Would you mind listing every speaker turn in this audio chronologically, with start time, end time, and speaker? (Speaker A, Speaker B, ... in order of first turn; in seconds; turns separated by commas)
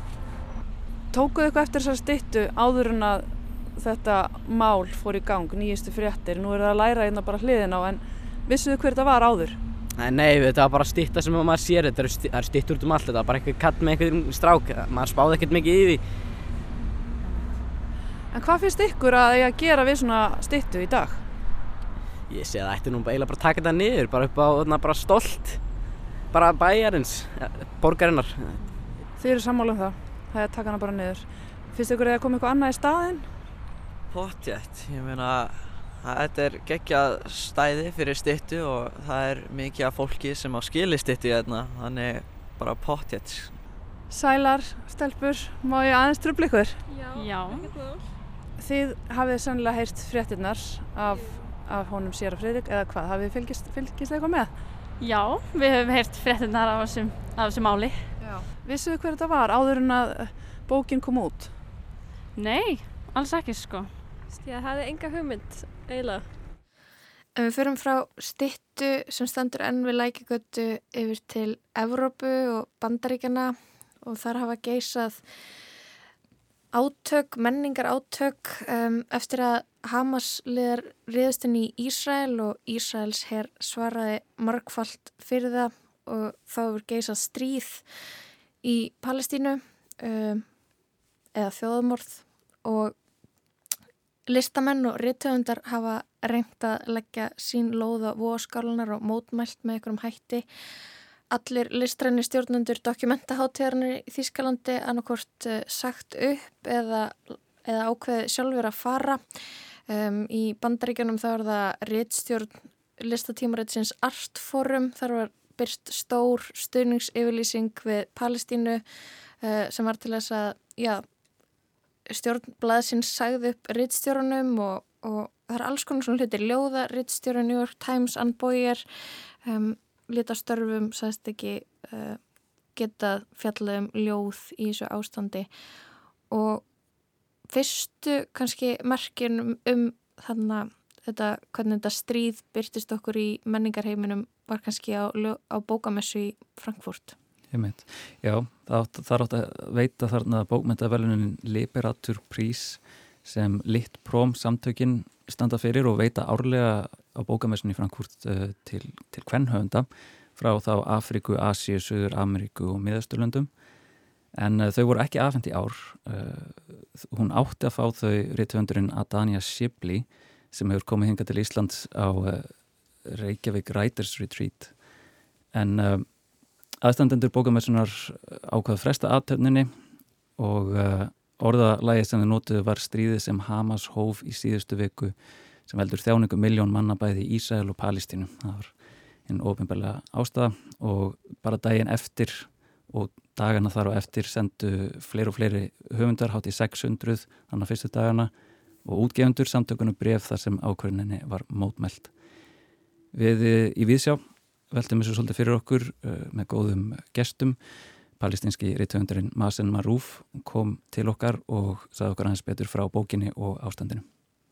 Speaker A: 1.1-9.6, Speaker B: 10.0-16.0, Speaker A: 18.3-21.2, Speaker B: 22.3-25.6, Speaker B: 26.3-28.6, Speaker A: 29.2-33.3, Speaker C: 38.4-38.9, Speaker C: 39.7-41.6, Speaker C: 42.1-43.3, Speaker A: 44.1-46.8, Speaker D: 46.9-48.0, Speaker E: 47.1-47.7, Speaker A: 48.6-54.5, Speaker E: 55.0-57.9, Speaker A: 58.2-61.5, Speaker E: 62.4-63.9, Speaker D: 64.4-66.2, Speaker F: 67.3-75.2, Speaker F: 76.7-87.8, Speaker F: 88.6-90.5, Speaker F: 91.3-92.9, Speaker F: 94.3-100.4, Speaker F: 101.3-109.3, Speaker F: 109.9-118.8, Speaker F: 119.4-121.0, Speaker F: 122.1-128.8, Speaker F: 129.4-132.2, Speaker F: 132.8-135.5, Speaker F: 136.3-136.6, Speaker F: 137.5-147.2, Speaker G: 147.5-163.5, Speaker G: 164.3-174.9, Speaker G: 175.5-176.2, Speaker G: 176.8-179.7, Speaker G: 180.4-185.1, Speaker G: 185.6-188.7, Speaker G: 189.2-198.3, Speaker G: 198.8-202.1, Speaker G: 203.1-207.6, Speaker G: 208.2-214.0